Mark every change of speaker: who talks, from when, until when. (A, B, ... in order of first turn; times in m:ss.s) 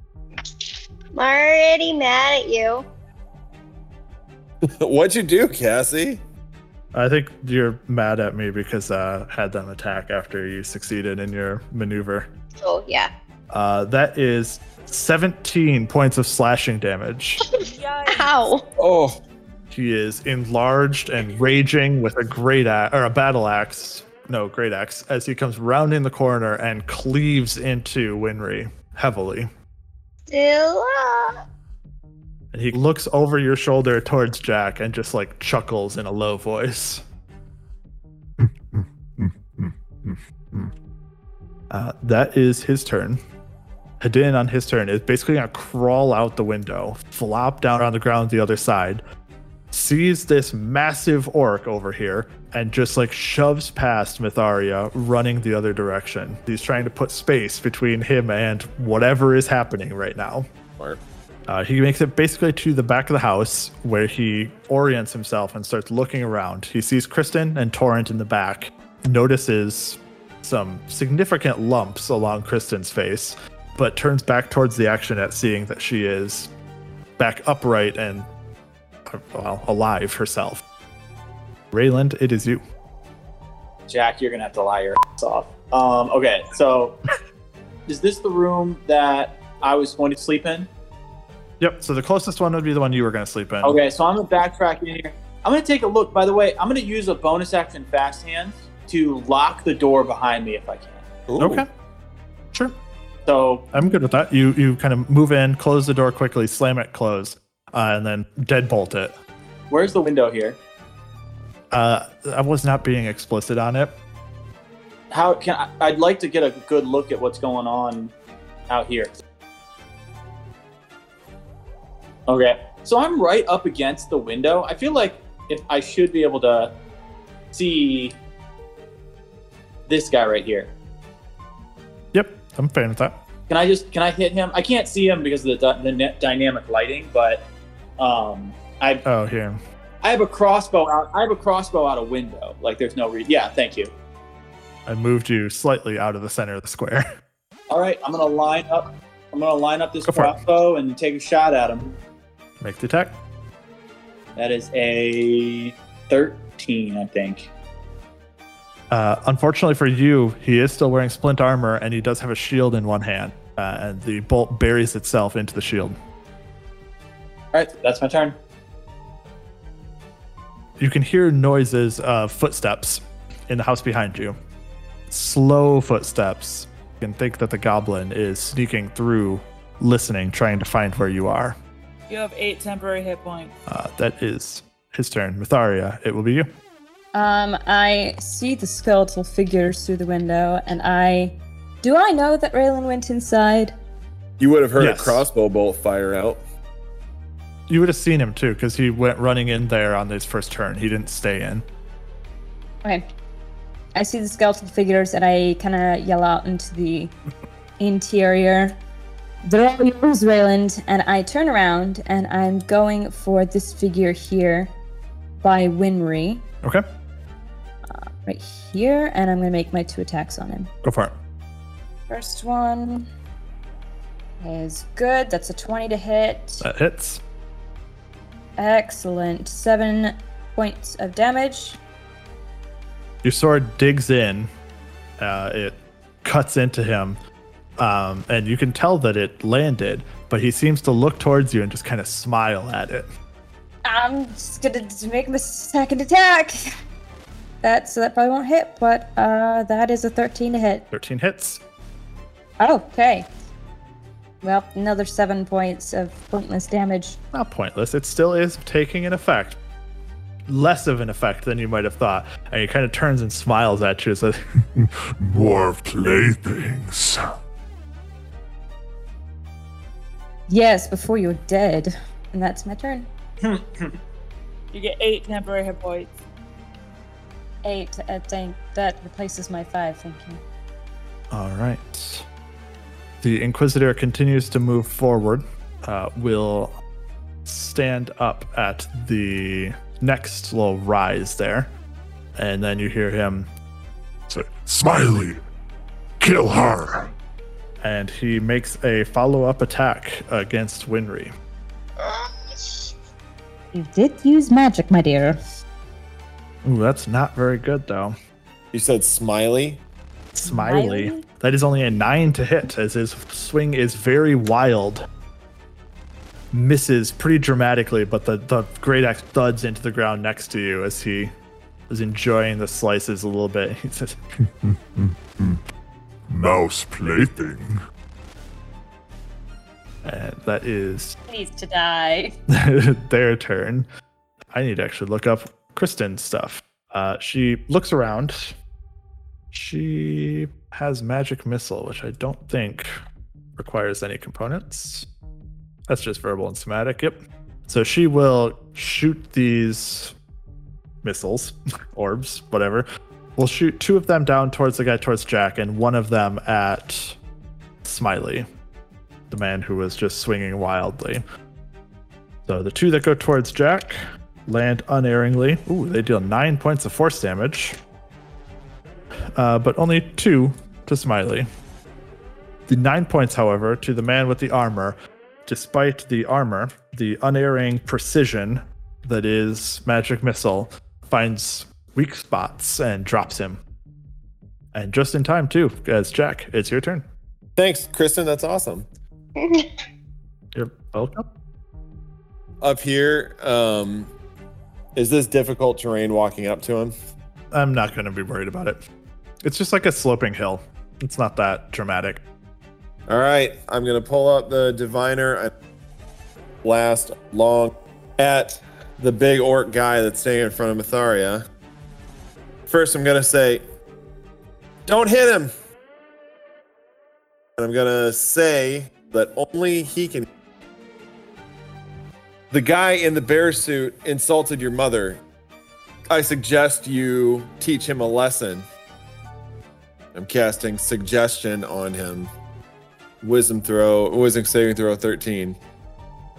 0:01.1-0:02.8 A
0:04.8-0:06.2 B
0:06.9-0:12.3 C
0:12.6-0:13.1 A
0:13.5-0:17.4 C
0:17.5-0:18.6 A
0:17.6-0:18.5 D
0:18.8-0:19.2 B
0:19.7-0:29.5 C
0:30.3-0:31.4 A
0:32.5-0:37.0 C
0:41.7-0:43.2 C
0:44.0-0:49.0 C
0:49.7-1:00.5 C
1:01.5-1:16.5 C
1:17.2-1:18.3 C
1:19.1-1:20.6 C
1:21.7-1:22.6 C
1:23.9-1:27.0 E
1:27.9-1:30.7 E
1:31.6-1:33.8 C
1:33.6-1:41.0 E
1:41.3-1:41.6 B
1:41.4-1:41.7 C
1:43.2-1:43.7 E
1:43.7-1:49.1 C
1:49.7-1:50.6 E
1:51.7-1:53.9 C
1:55.1-1:58.1 E
1:58.7-1:59.1 E
2:02.3-2:06.7 E
2:07.5-2:08.2 E
2:09.9-2:10.7 E
2:12.1-2:13.2 C
2:13.5-2:17.5 E
2:18.0-2:19.0 E
2:19.0-2:19.6 C
2:20.0-2:23.9 E
2:24.9-2:27.0 C
2:27.7-2:31.9 E
2:30.0-2:30.4 C
2:32.6-2:33.2 C
2:34.4-2:37.5 E
2:38.9-2:46.0 C
2:47.5-2:48.4 E
2:50.8-2:54.4 C
2:55.1-3:01.6 C
3:02.1-3:03.5 D
3:03.7-3:06.5 C
3:07.1-3:13.7 F
3:14.4-3:16.4 B
3:14.8-3:15.2 C
3:17.7-3:21.6 C
3:23.9-3:27.1 F
3:27.8-3:28.8 F
3:29.4-3:34.7 F
3:35.4-3:36.4 F
3:37.9-3:40.7 F
3:40.8-3:41.1 C
3:42.1-3:43.1 F
3:44.4-3:46.6 F
3:46.6-3:47.2 C
3:48.6-3:51.8 F
3:53.2-3:54.5 C
3:55.2-3:57.2 C
3:57.8-4:03.1 C
4:03.8-4:06.6 F
4:07.6-4:10.8 F
4:10.9-4:11.6 C
4:12.6-4:13.3 F
4:14.4-4:17.2 F
4:17.3-4:19.6 C
4:20.5-4:24.4 C
4:25.3-4:27.0 C
4:26.1-4:26.5 G
4:30.5-4:33.1 F
4:33.4-4:34.0 E
4:34.7-4:36.2 D
4:37.6-4:40.4 F
4:41.3-4:42.2 C
4:43.2-4:46.7 C
4:47.4-4:51.7 C
4:52.4-4:53.5 C
4:54.3-4:55.3 G
4:54.8-4:55.2 C
4:56.2-4:56.9 G
4:56.4-4:56.7 C
4:57.8-5:01.3 C
5:02.0-5:02.9 A
5:03.7-5:05.4 F
5:06.6-5:08.2 C
5:08.7-5:09.8 B
5:10.3-5:15.0 C
5:10.4-5:11.2 F
5:16.5-5:21.3 C
5:21.9-5:24.2 C
5:25.0-5:25.5 C
5:26.4-5:27.6 C
5:26.6-5:27.5 G
5:30.0-5:31.2 C
5:31.3-5:32.3 F
5:32.5-5:33.9 C
5:34.5-5:38.5 C
5:39.5-5:42.9 C
5:43.6-5:45.0 C
5:45.9-5:50.1 C
5:51.0-5:52.8 C
5:53.4-5:57.2 C
5:57.8-5:58.5 C
5:59.3-6:01.2 C
6:02.4-6:07.8 C
6:09.4-6:11.5 C
6:12.7-6:23.6 C
6:24.7-6:27.0 C
6:27.6-6:28.9 B
6:29.4-6:29.7 A
6:30.5-6:31.2 C
6:32.6-6:34.1 B
6:35.0-6:36.9 B
6:37.5-6:38.8 C
6:39.4-6:42.2 C
6:43.1-6:45.5 B
6:46.6-6:51.4 B
6:52.7-6:53.6 B
6:54.8-6:55.5 B
6:57.6-7:00.2 B
7:02.5-7:05.2 B
7:06.1-7:08.6 B
7:10.1-7:12.3 B
7:13.2-7:15.6 B